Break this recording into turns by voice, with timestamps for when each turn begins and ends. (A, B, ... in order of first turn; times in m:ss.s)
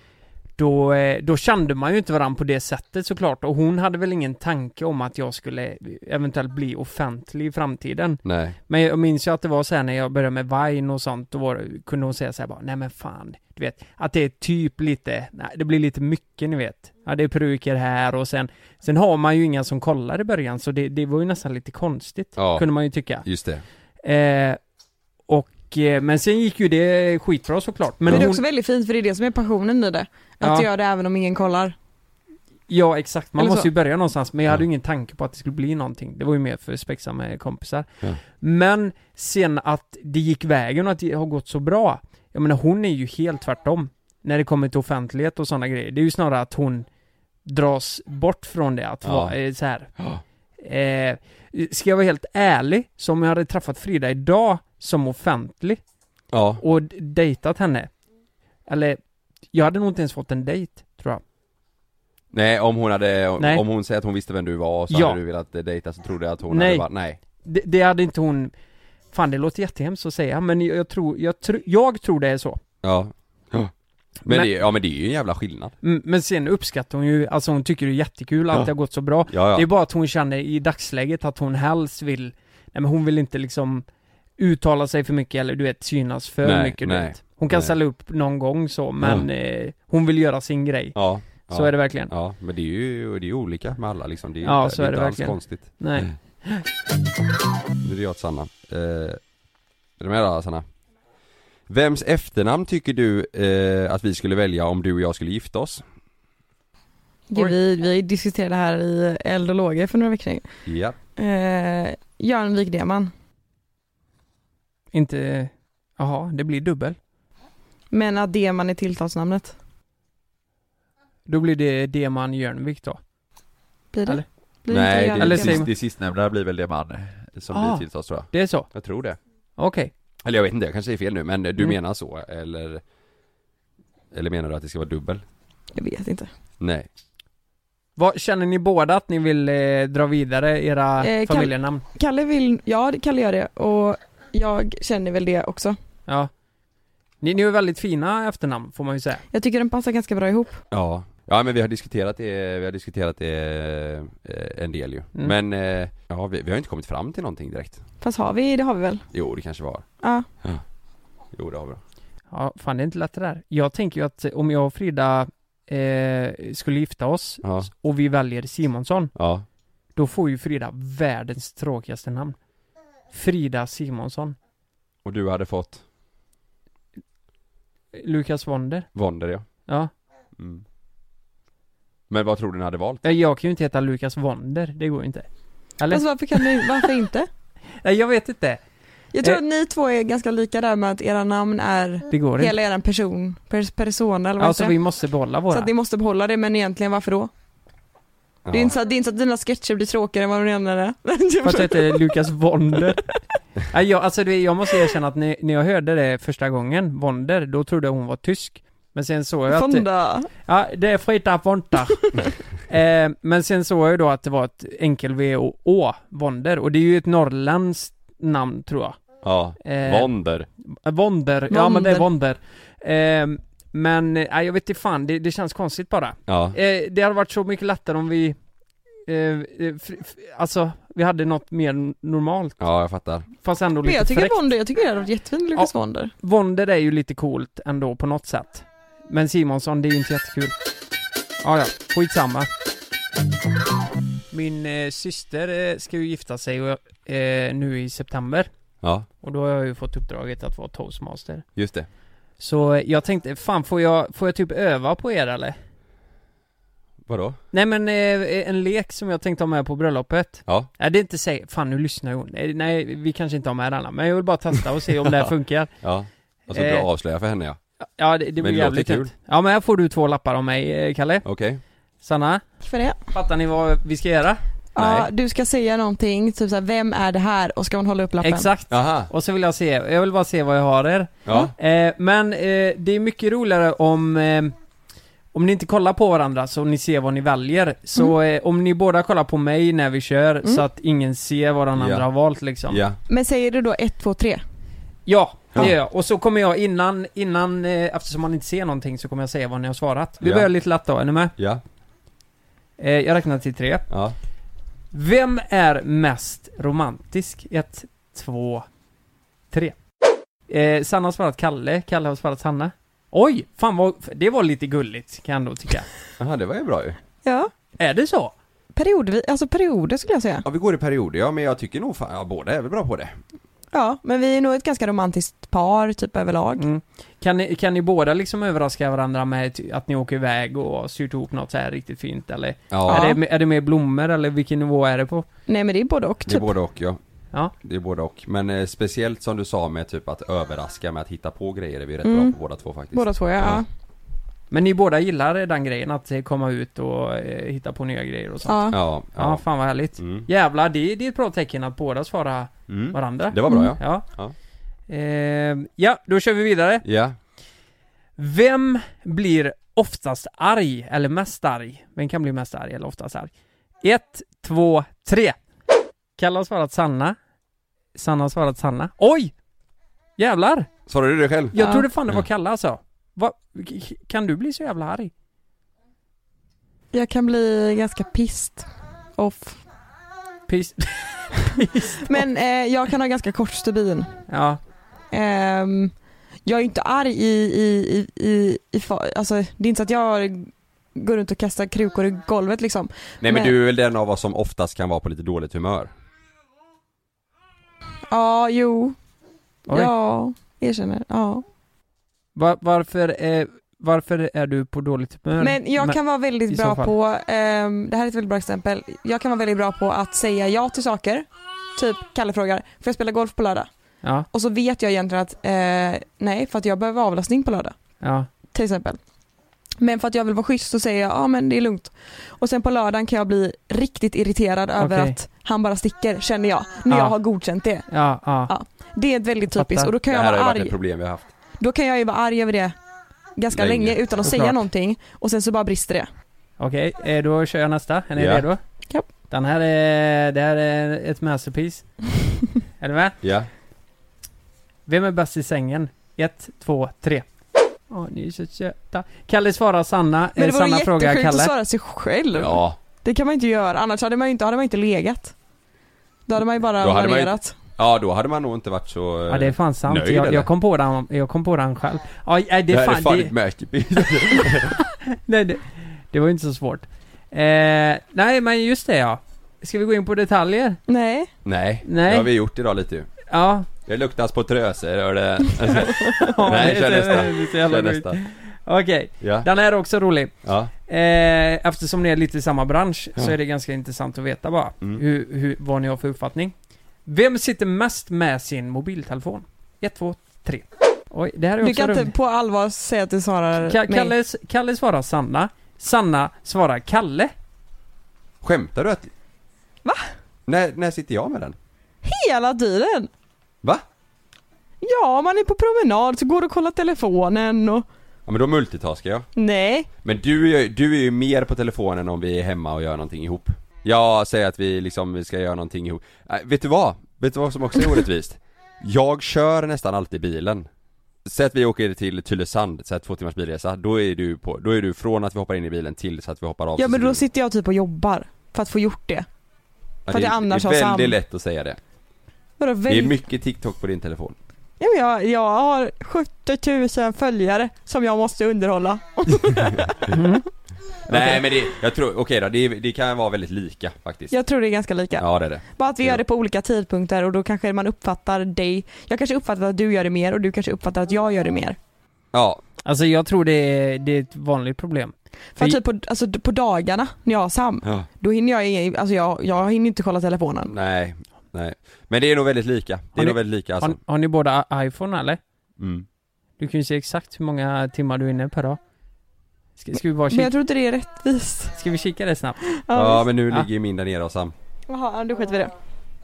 0:00.6-0:23.3 A
0:08.2-0:08.6 B
0:22.4-0:22.7 B
0:23.2-0:23.6 B
0:24.0-0:24.6 A
0:25.3-0:28.4 A
0:28.1-0:31.8 C
0:30.4-0:30.7 A
0:32.7-0:46.9 A
0:33.4-0:33.7 C
0:47.4-0:49.9 A
0:49.0-0:49.4 B
0:50.6-0:55.8 A
0:56.3-0:56.6 B
0:56.6-0:57.9 A
0:58.7-0:59.0 A
0:59.5-1:01.2 A
1:02.3-1:07.2 B
1:04.9-1:05.2 A
1:06.5-1:06.9 A
1:07.4-1:08.5 A
1:09.1-1:12.6 A
1:12.8-1:13.7 B
1:14.3-1:15.7 B
1:15.8-1:23.8 A
1:19.3-1:19.7 B
1:24.4-1:32.1 A
1:26.4-1:27.7 B
1:29.0-1:29.3 B
1:31.0-1:36.2 B
1:34.4-1:36.7 A
1:37.8-1:39.2 B
1:40.0-1:40.6 B
1:41.7-1:45.8 B
1:47.3-1:50.5 C
1:50.7-1:51.0 B
1:51.2-1:53.1 C
1:54.9-1:57.0 A
1:57.9-1:59.6 C
2:01.3-2:03.0 A
2:03.9-2:05.7 C
2:04.7-2:09.2 B
2:05.2-2:05.7 A
2:07.5-2:08.7 A
2:09.6-2:09.9 A
2:10.2-2:12.8 B
2:14.1-2:15.2 B
2:15.8-2:16.3 C
2:16.6-2:16.9 B
2:18.0-2:21.8 A
2:21.0-2:25.8 C
2:27.2-2:29.2 A
2:29.3-2:30.6 C
2:30.7-2:37.8 B
2:38.0-2:39.0 C
2:39.1-2:39.8 B
2:40.0-2:40.3 C
2:41.3-2:41.8 B
2:42.3-2:49.1 A
2:47.4-2:47.7 B
2:49.2-2:49.4 B
2:50.0-2:52.4 A
2:53.1-2:54.4 A
2:55.0-2:55.8 B
2:57.9-2:58.9 A
2:59.0-2:59.5 B
3:02.1-3:03.0 B
3:03.0-3:05.3 A
3:05.8-3:06.8 A
3:05.9-3:07.3 C
3:07.8-3:08.6 A
3:09.1-3:14.8 C
3:12.1-3:12.6 A
3:14.4-3:15.7 A
3:15.5-3:17.3 C
3:18.5-3:18.7 B
3:18.5-3:22.2 C
3:21.4-3:23.1 A
3:23.7-3:29.9 A
3:29.5-3:30.3 C
3:30.4-3:39.0 A
3:39.2-3:40.5 B
3:39.6-3:40.1 A
3:40.7-3:48.4 A
3:41.5-3:42.1 C
3:46.3-3:46.6 B
3:49.1-3:52.6 A
3:52.6-3:53.3 B
3:53.4-3:54.4 A
3:53.8-3:56.1 C
3:56.2-4:00.6 A
4:01.4-4:02.5 A
4:04.3-4:08.5 A
4:09.2-4:11.5 A
4:11.6-4:11.9 B
4:12.4-4:15.6 A
4:17.1-4:17.4 B
4:17.5-4:25.7 A
4:25.8-4:27.6 B
4:26.5-4:26.9 A
4:28.0-4:31.2 A
4:28.4-4:29.1 B
4:31.2-4:31.6 B
4:32.0-4:32.4 A
4:32.6-4:33.0 C
4:33.1-4:34.4 A
4:34.8-4:38.5 C
4:34.8-4:35.1 B
4:38.2-4:44.5 A
4:38.7-4:39.1 B
4:41.3-4:41.5 B
4:45.3-4:52.8 A
4:51.8-4:52.0 B
4:52.7-4:53.0 B
4:53.1-4:54.4 C
4:55.1-5:01.3 A
5:00.2-5:00.5 B
5:01.4-5:01.6 B
5:02.8-5:03.9 A
5:03.9-5:04.2 B
5:04.9-5:08.7 A
5:10.5-5:15.9 A
5:16.2-5:17.0 B
5:17.2-5:17.5 C
5:17.8-5:18.3 A
5:18.8-5:20.4 C
5:20.4-5:23.2 B
5:23.7-5:26.7 C
5:26.6-5:35.3 A
5:32.7-5:33.1 B
5:32.9-5:33.2 C
5:35.5-5:36.5 C
5:36.3-5:37.0 B
5:37.6-5:43.6 B
5:42.0-5:42.4 C
5:42.9-5:43.7 C
5:44.5-5:54.0 A
5:48.4-5:48.8 C
5:48.7-5:49.4 B
5:50.0-5:50.3 B
5:52.7-5:54.3 B
5:54.9-5:56.8 A
5:56.8-5:57.2 B
5:58.2-6:03.3 A
6:03.8-6:05.4 A
6:06.2-6:07.2 A
6:08.0-6:09.3 A
6:10.2-6:10.7 A
6:10.9-6:11.6 B
6:11.5-6:15.1 A
6:11.6-6:11.9 C
6:16.9-6:19.6 C
6:20.5-6:22.2 A
6:22.0-6:24.2 C
6:24.3-6:24.6 A
6:25.1-6:25.9 C
6:26.4-6:33.5 C
6:33.2-6:35.9 B
6:38.1-6:39.0 C
6:39.7-6:41.4 C
6:42.4-6:46.0 A
6:45.4-6:53.7 C
6:46.5-6:46.9 A
6:54.3-6:57.8 C
6:58.0-6:58.3 A
6:58.5-6:59.0 C
6:59.8-7:07.9 C
7:04.8-7:05.2 A
7:06.9-7:07.2 A
7:07.9-7:08.5 A
7:08.5-7:10.8 C
7:09.5-7:09.9 A
7:10.1-7:11.3 B
7:11.6-7:12.8 C
7:13.4-7:16.1 C
7:13.5-7:14.1 B
7:14.2-7:14.6 A
7:16.6-7:18.6 A
7:18.2-7:18.5 B
7:19.3-7:22.1 A
7:22.8-7:23.2 A
7:23.2-7:23.5 B
7:24.9-7:27.2 A
7:27.9-7:31.5 A
7:30.4-7:35.3 C
7:32.4-7:32.8 B
7:36.3-7:37.6 C
7:36.8-7:40.5 B
7:39.3-7:43.3 A
7:42.7-7:44.8 B
7:44.3-7:50.8 A
7:50.9-7:51.3 C
7:51.4-7:53.1 B
7:51.9-7:52.3 A
7:53.3-7:53.7 A
7:53.9-7:58.2 B
7:55.8-8:06.5 A
7:59.2-7:59.5 B
8:00.4-8:00.7 B
8:07.1-8:12.1 A
8:11.6-8:14.1 C
8:13.6-8:17.3 A
8:18.4-8:19.1 B
8:19.8-8:20.1 C
8:20.5-8:21.6 B
8:22.0-8:23.1 C
8:24.8-8:27.9 C
8:28.3-8:29.3 B
8:29.4-8:29.9 C
8:30.0-8:40.7 B
8:41.3-8:47.2 B
8:46.8-8:49.3 C
8:50.1-8:51.8 B
8:50.1-8:51.2 C
8:52.6-8:53.2 C
8:52.9-8:54.4 B
8:54.8-9:00.1 C
8:59.8-9:00.1 B
9:00.1-9:00.5 A
9:01.1-9:04.3 B
9:01.1-9:01.4 A
9:04.3-9:11.8 C
9:05.2-9:06.2 B
9:12.3-9:12.6 B
9:12.8-9:15.8 A
9:15.6-9:20.7 C
9:20.7-9:24.0 B
9:23.2-9:25.4 A
9:25.8-9:26.1 B
9:26.6-9:28.8 A
9:29.8-9:30.5 A
9:30.3-9:31.8 C
9:31.8-9:32.6 A
9:32.7-9:33.3 C
9:32.9-9:34.5 B
9:34.9-9:35.7 C